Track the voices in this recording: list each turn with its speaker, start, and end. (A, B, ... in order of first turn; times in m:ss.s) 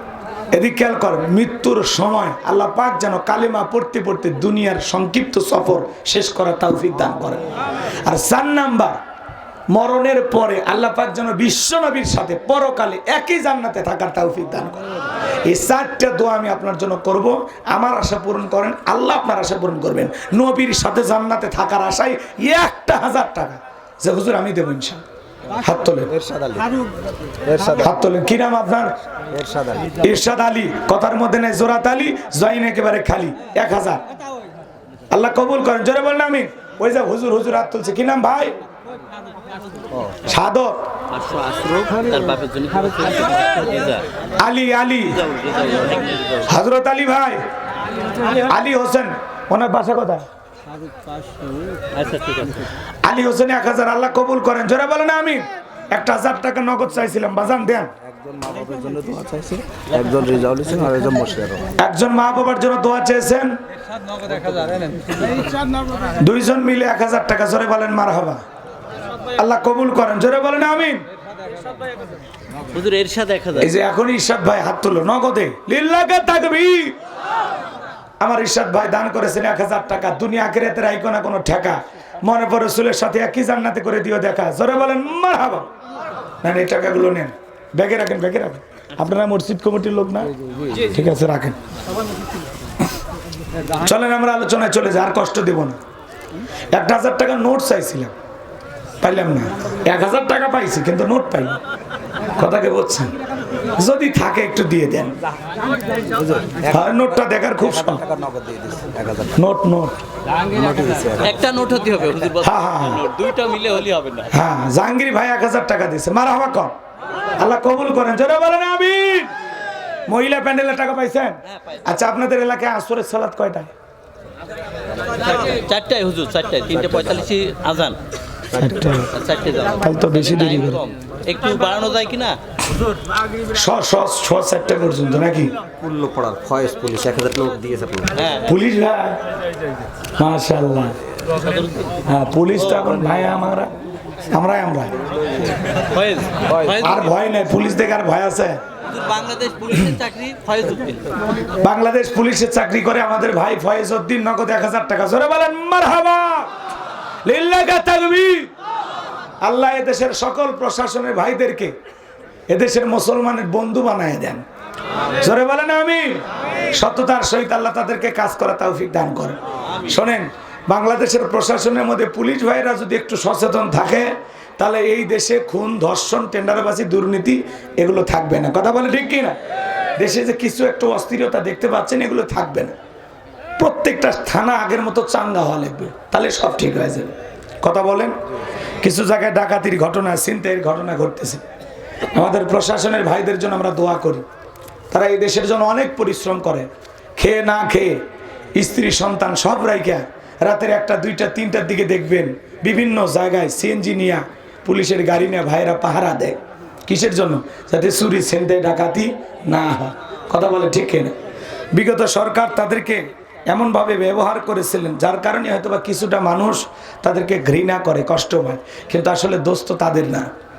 0:00.5-0:07.4 A
0:08.0-0:09.0 A
0:09.7-0:14.8 A
0:15.4-0:25.0 A
0:25.6-0:26.1 A
0:26.1-0:26.7 B
0:27.4-0:27.9 B
0:27.8-0:28.9 A
0:29.3-0:30.0 B
0:30.0-0:34.0 A
0:35.1-0:38.6 A
0:40.2-0:40.9 A
0:41.1-0:44.1 C
0:44.4-0:45.3 A
0:45.2-0:46.5 C
0:46.5-0:47.4 A
0:48.2-0:50.2 A
0:51.9-0:52.6 C
0:53.0-0:57.9 A
0:58.0-1:01.7 B
1:01.8-1:03.6 A
1:04.5-1:05.1 B
1:06.2-1:08.4 A
1:09.4-1:11.0 A
1:12.7-1:13.7 C
1:13.6-1:17.0 A
1:18.2-1:25.7 A
1:26.4-1:31.6 A
1:33.8-1:35.8 A
1:36.7-1:38.1 A
1:39.0-1:41.6 A
1:42.3-1:43.2 A
1:43.7-1:45.2 A
1:46.0-1:47.0 B
1:46.7-1:48.0 A
1:47.6-1:49.4 B
1:49.3-1:50.0 A
1:50.4-1:51.4 B
1:51.2-1:54.3 C
1:52.4-1:53.1 A
1:54.3-1:56.7 A
1:57.4-1:59.3 A
2:00.1-2:03.7 A
2:05.3-2:08.0 C
2:08.5-2:09.1 A
2:09.1-2:12.4 C
2:09.8-2:10.8 A
2:13.5-2:15.5 A
2:15.8-2:18.1 B
2:18.1-2:18.5 C
2:18.4-2:19.2 A
2:20.2-2:21.0 A
2:21.4-2:21.9 C
2:22.0-2:23.7 A
2:24.3-2:25.0 A
2:25.9-2:27.0 C
2:26.5-2:26.8 B
2:26.8-2:28.6 A
2:28.9-2:31.1 C
2:31.6-2:36.5 A
2:37.2-2:38.5 A
2:39.4-2:41.7 A
2:42.5-2:44.4 A
2:45.2-2:46.2 A
2:46.7-2:59.4 A
3:00.0-3:02.7 A
3:03.6-3:08.1 A
3:08.8-3:11.4 A
3:12.1-3:14.2 A
3:14.9-3:18.0 A
3:18.6-3:31.1 A
3:31.7-3:40.3 A